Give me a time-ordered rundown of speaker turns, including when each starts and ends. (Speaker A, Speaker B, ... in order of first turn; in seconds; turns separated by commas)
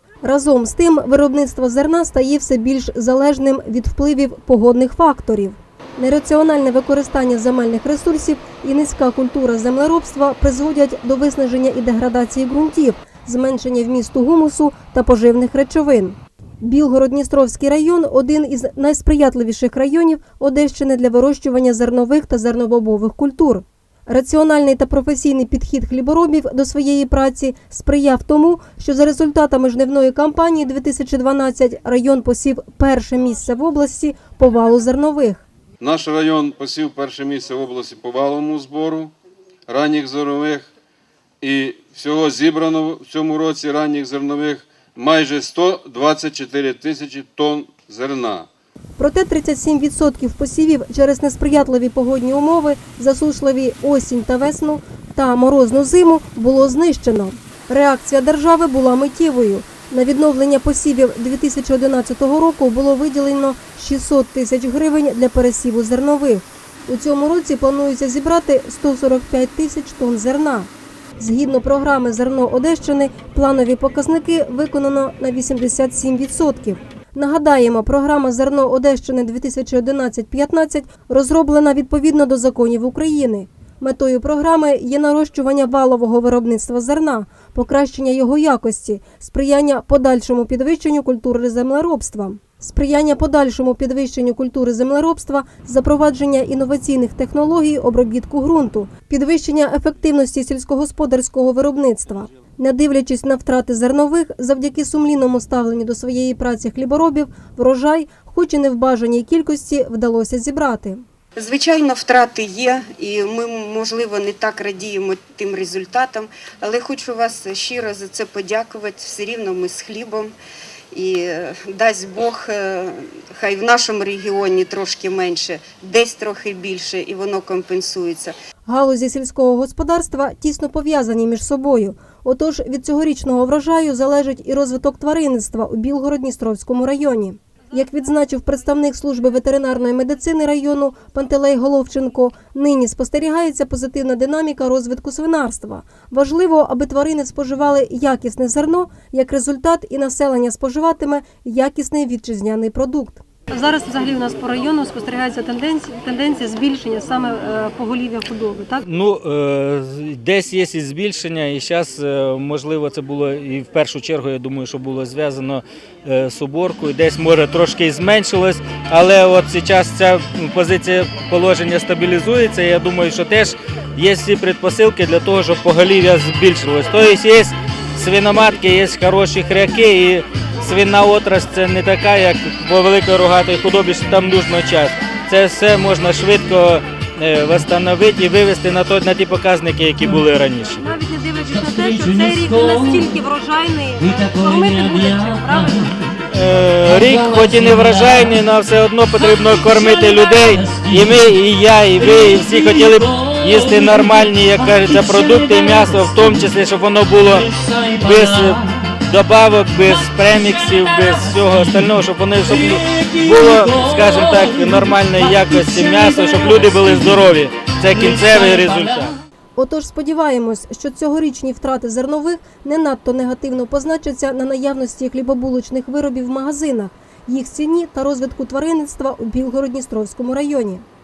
Speaker A: 0.2-35.5, Speaker B: 35.8-39.1, Speaker B: 39.7-40.7, Speaker B: 41.4-48.5, Speaker A: 49.0-111.0, Speaker C: 111.4-120.3, Speaker C: 120.9-128.3, Speaker A: 128.7-158.8, Speaker D: 158.8-190.8, Speaker A: 190.8-196.0, Speaker D: 196.3-219.2, Speaker A: 219.6-230.8